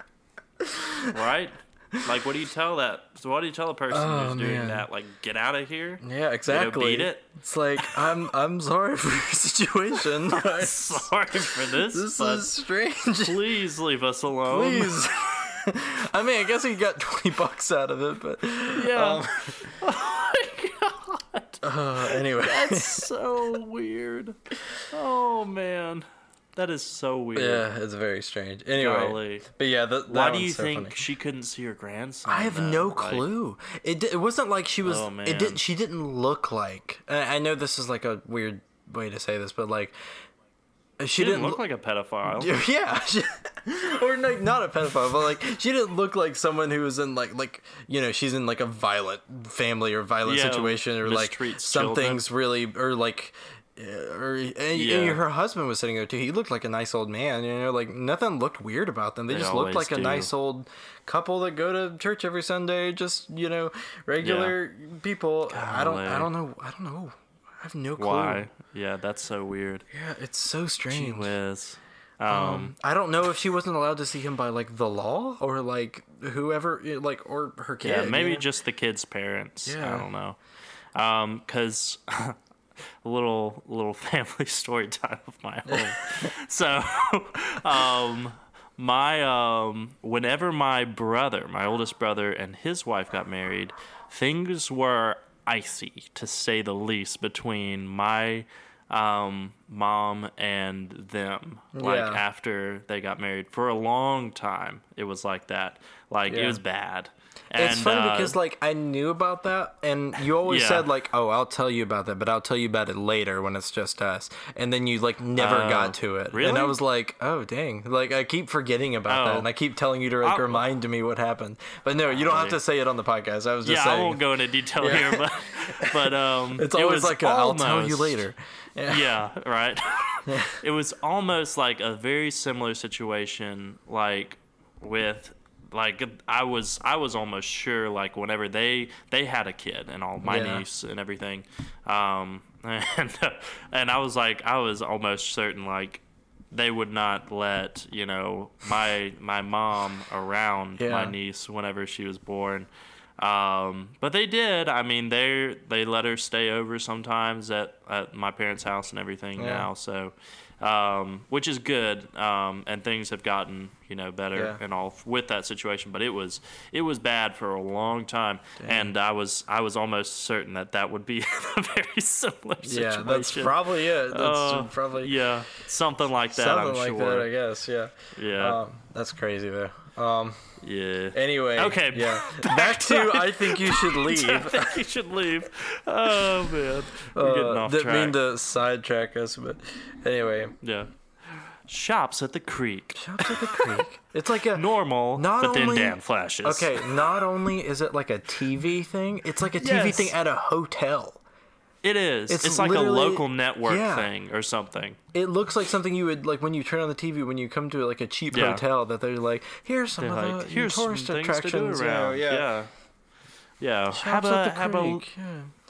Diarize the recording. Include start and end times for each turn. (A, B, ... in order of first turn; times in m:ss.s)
0:00.6-0:01.2 A
0:01.1-0:07.3 B
0:03.9-0:04.9 A
0:06.0-0:13.5 A
0:07.8-0:08.1 B
0:10.2-0:12.5 B
0:13.2-0:15.0 B
0:14.4-0:19.6 A
0:18.7-0:24.4 B
0:21.6-0:23.1 A
0:24.9-0:27.6 B
0:27.3-0:31.0 A
0:28.8-0:29.4 B
0:30.1-0:33.3 B
0:32.2-0:39.9 A
0:34.8-0:35.6 B
0:41.0-0:41.6 A
0:41.2-0:42.5 B
0:42.2-1:08.4 A
0:50.2-0:52.2 B
0:54.7-0:55.2 B
0:59.3-1:00.3 B
1:04.2-1:04.6 B
1:05.5-1:06.3 B
1:08.0-1:09.8 B
1:09.9-1:11.4 A
1:10.9-1:12.7 B
1:12.3-1:18.5 A
1:17.8-1:20.4 B
1:19.6-1:20.1 A
1:20.9-1:22.4 B
1:23.0-1:48.4 B
1:25.7-1:26.3 A
1:41.7-1:42.2 A
1:46.3-1:46.6 A
1:47.5-2:04.2 A
1:50.4-1:50.9 B
1:55.4-1:56.8 B
1:59.1-1:59.5 B
2:00.2-2:00.6 B
2:02.1-2:02.6 B
2:03.6-2:08.2 B
2:04.8-2:09.1 A
2:08.8-2:32.7 B
2:10.3-2:10.6 A
2:20.2-2:20.6 A
2:30.8-2:31.2 A
2:33.2-2:57.3 B
2:39.4-2:39.7 A
2:44.3-2:44.6 A
2:48.6-2:48.9 A
2:52.6-2:55.1 A
2:56.3-3:00.4 A
2:58.2-2:58.6 B
3:00.6-3:08.2 B
3:01.1-3:04.8 A
3:07.1-3:10.5 A
3:10.6-3:13.8 B
3:12.9-3:21.2 A
3:14.5-3:16.9 B
3:19.6-3:20.1 B
3:21.8-3:25.0 B
3:22.3-3:24.1 A
3:25.1-3:32.5 A
3:28.3-3:28.6 B
3:30.0-3:32.7 B
3:33.6-3:35.0 B
3:33.9-3:35.5 A